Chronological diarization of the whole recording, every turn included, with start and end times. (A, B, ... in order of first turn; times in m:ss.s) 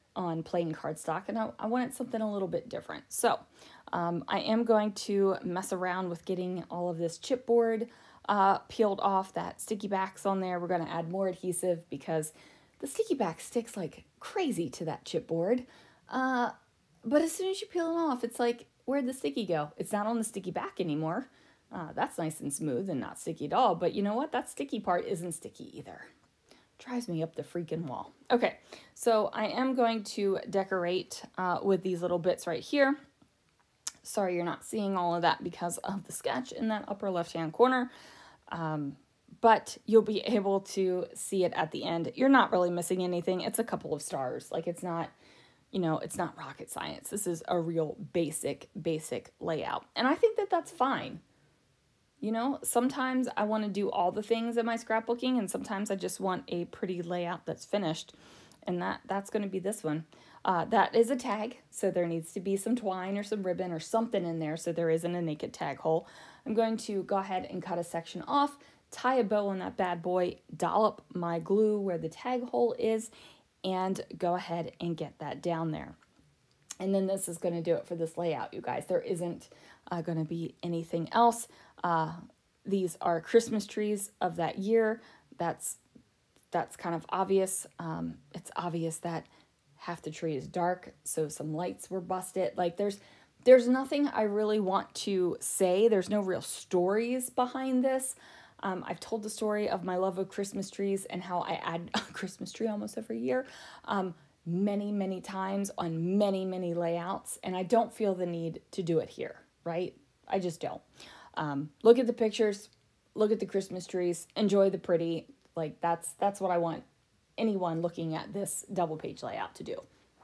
0:00.2-0:16.5 A
0:17.0-0:26.1 A
0:26.8-0:33.0 A
0:34.0-0:37.9 A
0:38.5-0:45.1 A
0:45.7-0:51.2 A
0:52.2-0:58.2 A
0:58.7-1:13.1 A
1:13.6-1:16.0 A
1:16.8-1:25.8 A
1:26.5-1:50.8 A
1:51.4-1:56.9 A
1:57.4-1:59.8 A